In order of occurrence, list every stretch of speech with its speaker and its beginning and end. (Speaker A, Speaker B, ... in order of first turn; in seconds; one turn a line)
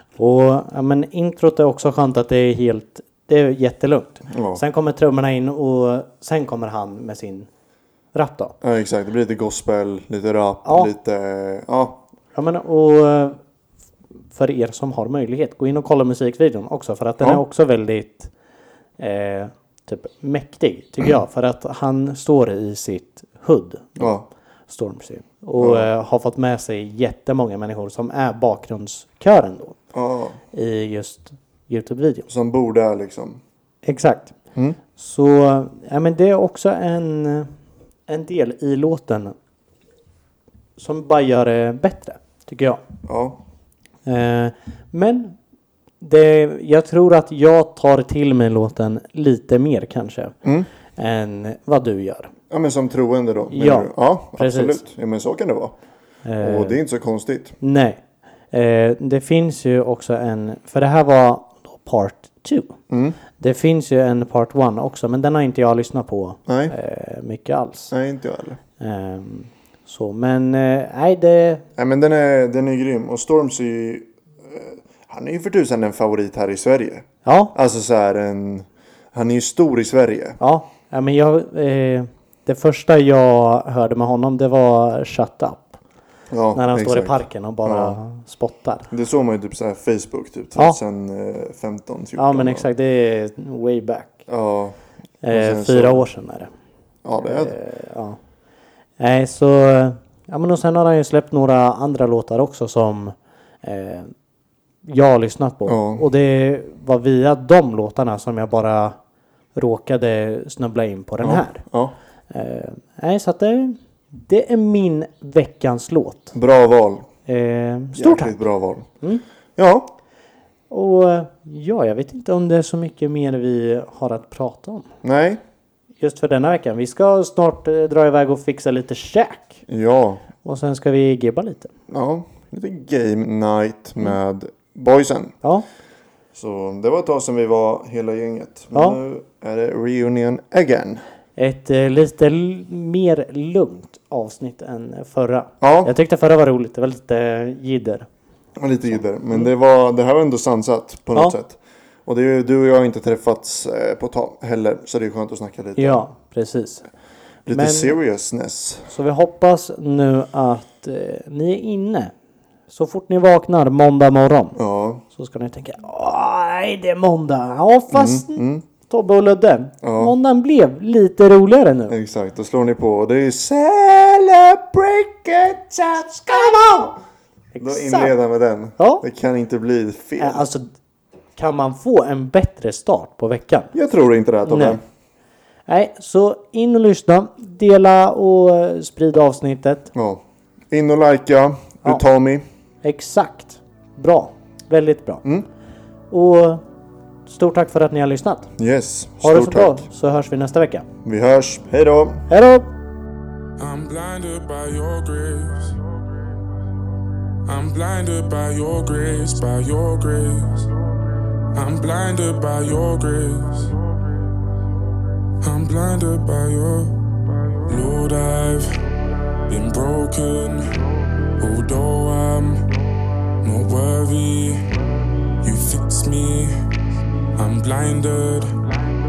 Speaker A: 0.2-7.5
Speaker B: 4.3-4.6
Speaker A: 8.1-8.6
Speaker B: 8.6-12.0
Speaker A: 10.7-10.9
Speaker A: 12.3-13.4
Speaker A: 14.3-18.3
Speaker A: 19.0-24.2
Speaker B: 24.0-24.3
Speaker A: 24.7-29.8
Speaker B: 25.6-25.9
Speaker B: 29.9-30.4
Speaker A: 30.5-32.3
Speaker B: 32.3-33.4
Speaker A: 33.9-34.4
Speaker A: 35.0-37.5
Speaker A: 38.1-39.4
Speaker A: 40.8-42.8
Speaker B: 43.1-43.4
Speaker A: 44.1-45.4
Speaker A: 46.0-50.4
Speaker B: 50.4-50.7
Speaker A: 51.0-52.3
Speaker B: 52.5-55.8
Speaker A: 53.5-54.8
Speaker A: 56.2-56.8
Speaker B: 56.4-57.6
Speaker A: 57.6-62.8
Speaker B: 62.9-63.2
Speaker A: 63.4-67.9
Speaker B: 66.5-66.8
Speaker B: 67.9-68.6
Speaker A: 68.8-71.7
Speaker B: 71.8-80.4
Speaker A: 77.2-77.5
Speaker A: 80.4-85.8
Speaker B: 86.3-88.0
Speaker A: 86.5-88.9
Speaker B: 88.9-92.7
Speaker A: 92.2-94.2
Speaker B: 94.3-96.1
Speaker A: 95.2-96.5
Speaker B: 97.0-97.6
Speaker A: 97.2-98.2
Speaker A: 99.0-104.1
Speaker A: 104.8-109.0
Speaker B: 105.7-106.1
Speaker A: 109.5-111.6
Speaker B: 111.2-112.0
Speaker A: 112.3-116.3
Speaker B: 116.3-117.1
Speaker A: 117.3-118.3
Speaker B: 117.9-118.9
Speaker B: 119.6-119.9
Speaker A: 120.7-124.9
Speaker B: 125.0-125.4
Speaker A: 126.0-129.6
Speaker B: 129.7-130.2
Speaker A: 130.4-131.7
Speaker B: 131.9-135.3
Speaker B: 136.3-141.0
Speaker A: 138.7-139.0
Speaker A: 141.4-148.1
Speaker B: 145.6-145.9
Speaker B: 148.6-156.1
Speaker A: 155.8-156.9
Speaker B: 157.5-158.9
Speaker A: 157.5-158.0
Speaker A: 158.9-162.1
Speaker A: 162.7-164.6
Speaker B: 164.6-165.0
Speaker A: 165.1-171.9
Speaker B: 167.9-168.6
Speaker B: 169.8-170.2
Speaker B: 171.9-177.0
Speaker A: 176.3-176.7
Speaker A: 177.6-178.1
Speaker B: 177.6-180.5
Speaker A: 178.8-179.0
Speaker A: 180.2-180.7
Speaker A: 181.4-183.7
Speaker B: 183.7-184.8
Speaker A: 184.4-184.8
Speaker A: 185.7-189.9
Speaker B: 189.9-192.5
Speaker A: 192.8-195.2
Speaker A: 196.1-196.6
Speaker A: 197.3-198.5
Speaker B: 198.6-199.8
Speaker A: 199.2-200.9
Speaker B: 201.1-202.2
Speaker A: 202.3-202.7
Speaker C: 203.6-205.8
Speaker C: 207.5-210.7
Speaker C: 211.5-213.8
Speaker C: 215.4-218.8
Speaker C: 219.5-220.8
Speaker C: 221.4-222.7
Speaker C: 223.4-224.8
Speaker C: 225.4-226.6
Speaker C: 227.3-228.7